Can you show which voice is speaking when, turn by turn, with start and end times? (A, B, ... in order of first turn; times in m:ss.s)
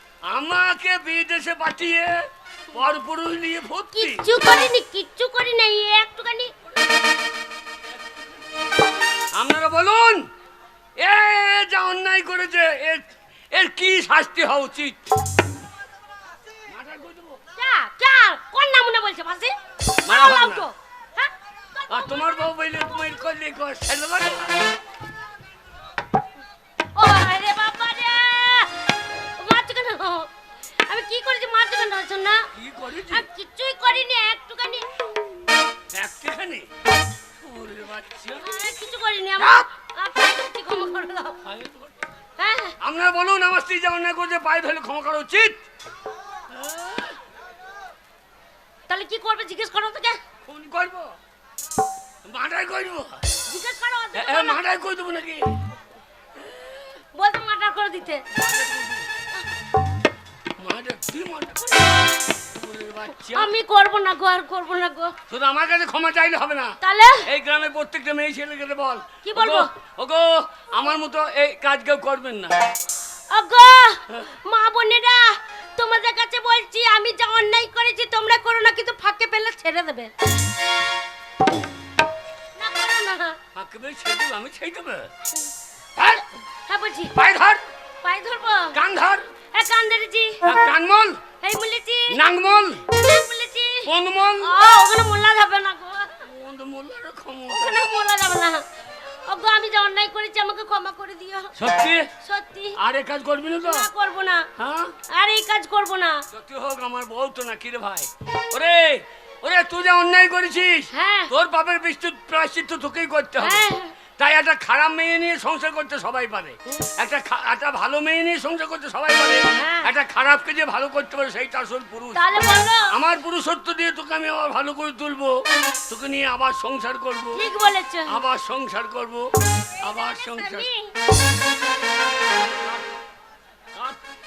0:00.2-0:04.3 A
0:04.0-0:06.5 B
0:09.3-0:10.3 A
0:11.0-0:15.0 A
0:16.7-0:17.4 A
0:17.6-0:22.2 B
0:20.0-0:20.7 A
0:21.9-0:24.7 A
0:27.0-0:30.3 B
0:30.8-0:32.5 B
0:32.5-0:33.2 A
0:33.1-0:34.9 B
0:35.9-0:36.7 A
0:37.4-0:38.7 A
0:38.4-0:41.4 B
0:41.5-0:41.9 A
0:42.4-0:42.8 B
0:42.8-0:45.6 A
0:46.7-0:47.1 A
0:48.9-0:50.2 B
0:50.4-0:51.2 A
0:52.3-0:53.2 A
0:53.5-0:54.6 B
0:54.2-0:55.6 A
0:57.1-0:58.2 B
0:58.3-0:59.1 A
1:00.6-1:03.5 A
1:03.3-1:05.2 B
1:05.3-1:12.7 A
1:06.8-1:07.3 B
1:09.2-1:09.7 B
1:13.3-1:20.1 B
1:22.6-1:23.4 B
1:23.6-1:25.1 A
1:26.0-1:26.2 A
1:26.7-1:27.1 B
1:27.2-1:27.6 A
1:28.0-1:28.8 B
1:28.7-1:29.3 A
1:29.5-1:30.4 B
1:30.4-1:31.2 A
1:31.4-1:32.2 B
1:32.1-1:32.9 A
1:32.9-1:36.3 B
1:33.9-1:34.6 A
1:36.2-1:37.9 A
1:37.5-1:38.6 B
1:39.2-1:41.6 B
1:41.6-1:42.1 A
1:42.2-1:42.8 B
1:42.8-1:43.9 A
1:43.6-1:44.5 B
1:44.6-1:45.0 A
1:45.1-1:46.2 B
1:46.3-2:02.2 A
1:50.9-1:51.3 B
1:53.4-1:54.0 B
1:59.5-1:59.9 B
2:02.1-2:03.0 B
2:02.9-2:07.4 A
2:07.4-2:08.2 B
2:08.1-2:10.7 A
2:09.9-2:11.0 B
2:13.7-2:14.0 A